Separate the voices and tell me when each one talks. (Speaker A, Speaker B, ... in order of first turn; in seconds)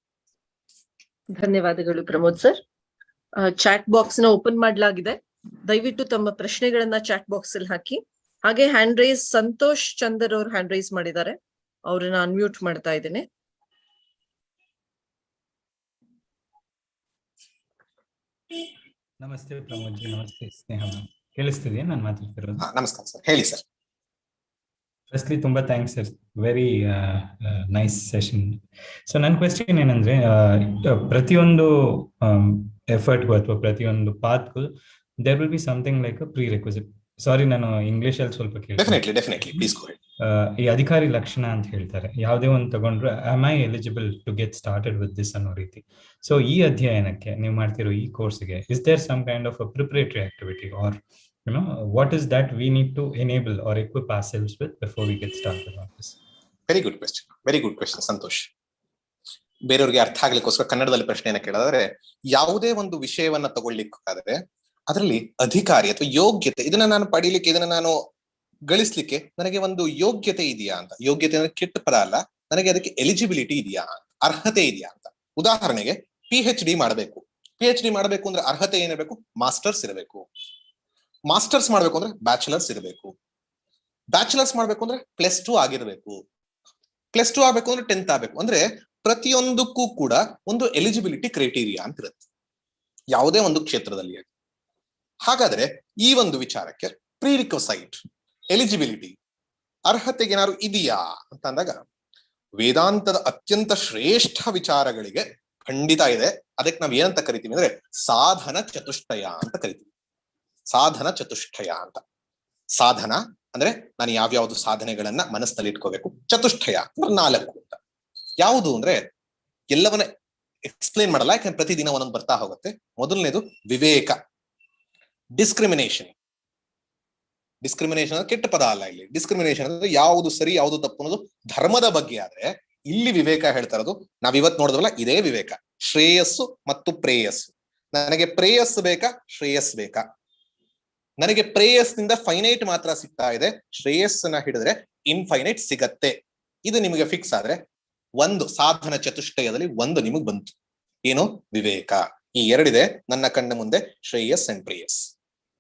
Speaker A: 1.4-2.6, 3.4-13.2
Speaker B: 19.2-22.6, 25.1-39.7, 40.2-56.2
Speaker C: 22.6-23.6, 38.8-40.0, 56.7-58.5, 59.7-64.4, 64.9-68.0, 68.7-80.3, 81.3-83.1, 84.1-86.2, 87.1-92.2, 93.1-94.3, 95.3-98.0, 98.5-99.1, 99.9-101.8, 102.6-109.9, 110.7-112.0, 112.8-117.8, 118.4-119.0, 119.7-120.1, 120.7-124.2, 125.4-126.1, 127.6-140.0, 141.2-146.2, 146.7-147.6, 148.2-150.5, 151.1-155.1